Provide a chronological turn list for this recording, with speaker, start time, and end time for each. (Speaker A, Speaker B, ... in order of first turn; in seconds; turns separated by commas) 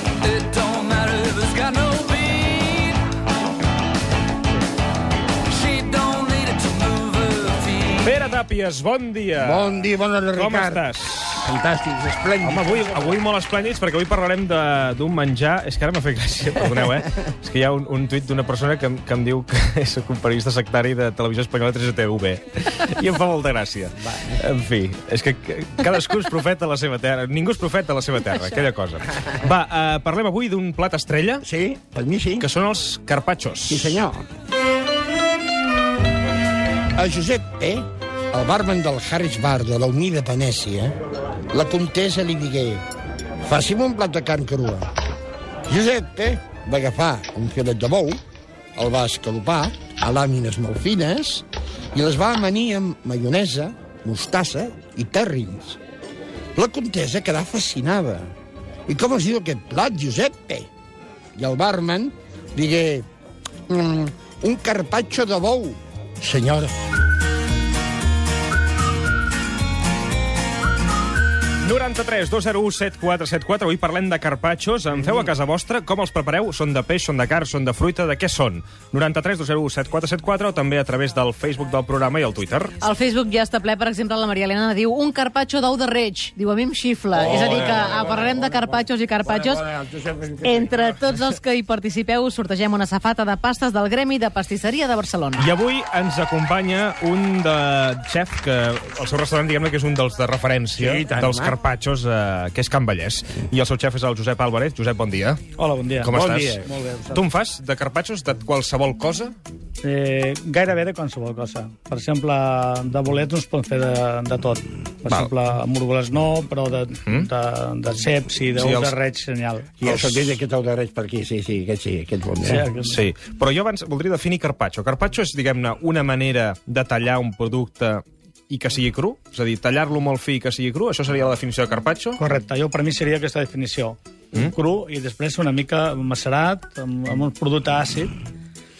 Speaker A: 0.2-2.8, Speaker A: 5.5-8.1, Speaker B: 8.0-11.5, Speaker C: 9.4-10.8, Speaker C: 11.4-13.2, Speaker B: 12.4-31.4, Speaker C: 31.4-32.5, Speaker B: 32.4-34.0, Speaker C: 33.7-34.2, Speaker C: 37.0-40.9, Speaker C: 41.5-42.8, Speaker C: 43.4-44.9, Speaker C: 45.7-48.2, Speaker C: 48.8-55.8, Speaker C: 56.5-58.3, Speaker C: 58.9-60.7, Speaker C: 61.3-63.0, Speaker C: 63.7-66.8, Speaker B: 71.6-82.8, Speaker D: 82.8-89.6, Speaker C: 87.1-91.3, Speaker B: 87.3-87.9, Speaker D: 90.4-95.5, Speaker B: 95.4-105.4, Speaker C: 100.8-101.5, Speaker E: 105.6-107.2, Speaker B: 106.0-109.3, Speaker E: 109.8-120.4, Speaker B: 118.5-118.9, Speaker C: 119.8-122.6, Speaker E: 122.4-122.9, Speaker B: 122.8-132.2, Speaker E: 132.2-138.1